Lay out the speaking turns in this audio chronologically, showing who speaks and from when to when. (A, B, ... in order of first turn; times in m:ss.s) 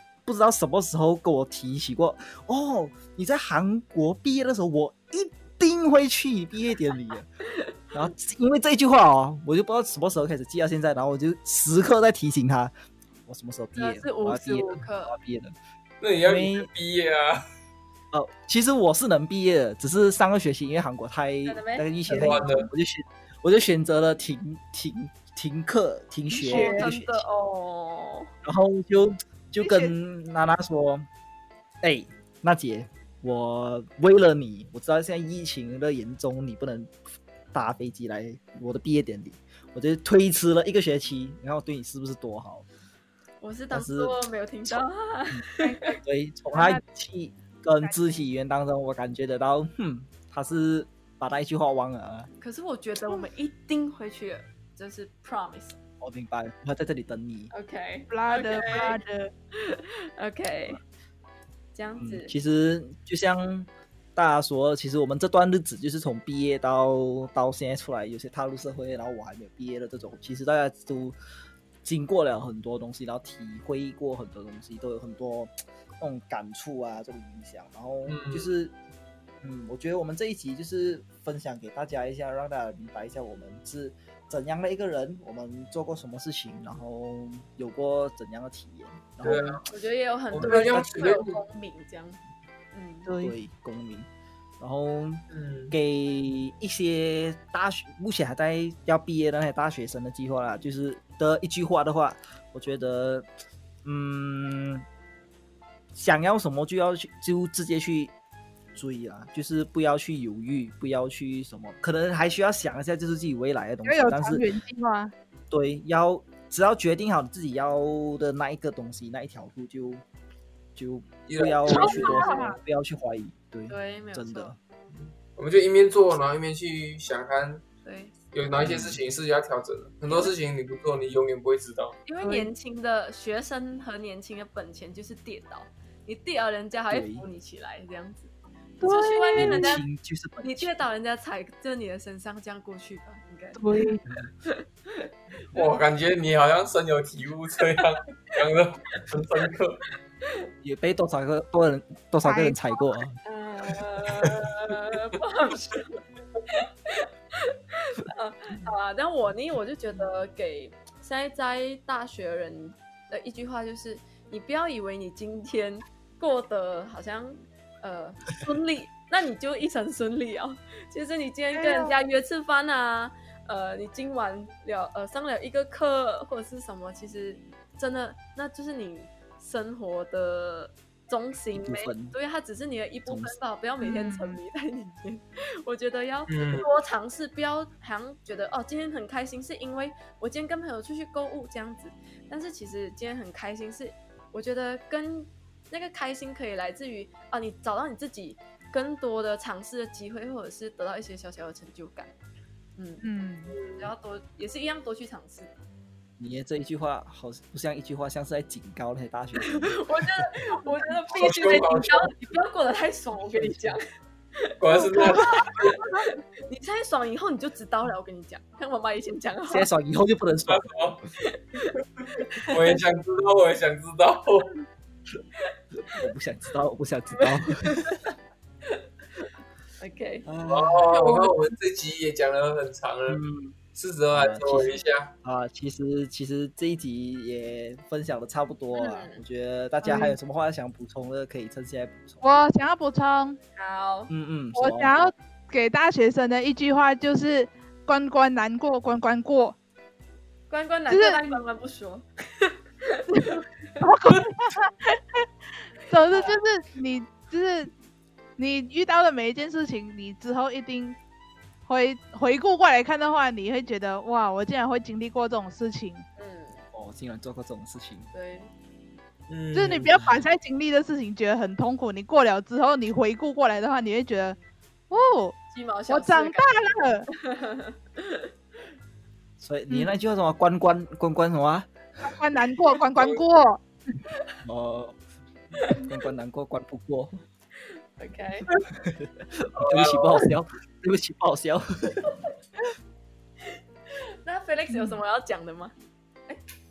0:00.2-0:07.3 A
0:07.9-0:12.7 A
0:13.2-0:15.5 A
0:13.8-0:15.2 B
0:16.0-0:17.4 C
0:16.2-0:16.7 A
0:18.1-0:27.2 A
0:21.4-0:22.5 B
0:22.1-0:22.7 C
0:26.3-0:26.9 D
0:26.4-0:28.3 B
0:28.4-0:31.1 A
0:29.6-0:29.9 D
0:31.8-0:36.9 A
0:37.5-0:42.6 A
0:43.4-0:46.0 B
0:43.7-0:45.4 A
0:45.6-0:46.0 D
0:46.0-0:52.3 A
0:46.5-0:46.8 D
0:52.4-0:55.8 B
0:56.0-0:57.5 A
0:57.5-0:59.0 B
0:58.1-0:59.3 D
0:59.5-1:00.8 B
1:01.7-1:02.3 B
1:02.0-1:11.2 A
1:11.8-1:18.7 A
1:18.0-1:18.5 C
1:19.4-1:29.6 A
1:29.2-1:29.7 C
1:29.7-1:32.2 B
1:30.3-1:31.4 C
1:30.4-1:31.2 A
1:32.7-1:33.1 B
1:33.0-1:33.4 D
1:33.2-1:34.1 A
1:34.6-1:43.3 A
1:35.3-1:35.7 C
1:43.8-1:44.8 A
1:45.9-1:48.1 A
1:48.7-1:54.4 A
1:53.8-1:55.1 D
1:55.5-2:00.0 A
2:00.8-2:04.6 A
2:01.3-2:02.0 C
2:01.7-2:02.6 D
2:01.7-2:02.6 B
2:03.7-2:04.5 B
2:04.9-2:07.6 C
2:07.8-2:08.1 B
2:08.3-2:12.0 C
2:08.6-2:09.0 A
2:12.0-2:19.8 B
2:12.2-2:12.5 D
2:16.9-2:17.2 A
2:18.8-2:19.8 D
2:19.4-2:20.7 A
2:20.4-2:23.9 B
2:23.6-2:24.0 D
2:24.4-2:25.7 B
2:25.5-2:29.9 C
2:30.6-2:33.2 A
2:32.2-2:32.9 D
2:33.2-2:35.9 B
2:36.5-3:22.1 B
2:51.5-2:52.0 D
3:01.5-3:02.2 A
3:03.1-3:03.4 A
3:03.8-3:04.4 D
3:06.3-3:06.7 C
3:22.8-3:23.0 B
3:23.0-3:23.6 D
3:23.5-3:23.9 C
3:23.7-3:25.5 B
3:26.2-3:29.8 A
3:29.4-3:33.8 B
3:31.1-3:32.1 C
3:33.3-3:33.8 A
3:34.4-3:39.7 B
3:34.6-3:35.6 C
3:35.0-3:35.2 D
3:39.5-3:40.7 A
3:40.5-3:41.0 C
3:41.2-3:42.7 B
3:42.4-3:44.6 C
3:45.9-3:47.9 A
3:47.2-3:48.1 B
3:49.8-3:50.3 B
3:50.2-3:51.1 A
3:50.5-3:53.2 C
3:53.1-3:53.6 A
3:53.7-3:55.1 C
3:54.1-4:02.2 A
3:58.7-3:59.2 B
3:59.8-4:00.2 D
4:02.2-4:03.4 D
4:03.6-4:04.1 B
4:04.1-4:05.1 A
4:04.5-4:09.6 D
4:10.5-4:13.4 B
4:10.9-4:11.4 D
4:13.3-4:15.0 D
4:15.9-4:17.7 D
4:16.1-4:16.4 B
4:18.4-4:21.0 D
4:21.6-4:26.0 D
4:26.2-4:26.6 B
4:26.7-4:28.1 A
4:28.1-4:28.5 B
4:29.3-4:29.9 C
4:29.5-4:34.4 D
4:29.9-4:30.3 A
4:34.9-4:35.4 D
4:35.5-4:36.5 B
4:35.9-4:37.1 D
4:37.1-4:38.3 B
4:39.4-4:41.7 A
4:42.0-4:43.6 D
4:43.0-4:43.3 C
4:44.4-4:45.0 A
4:45.7-4:47.2 A
4:47.6-4:48.5 B
4:48.7-4:52.1 A
4:49.6-4:50.2 C
4:53.9-4:55.7 B
4:54.7-4:55.0 D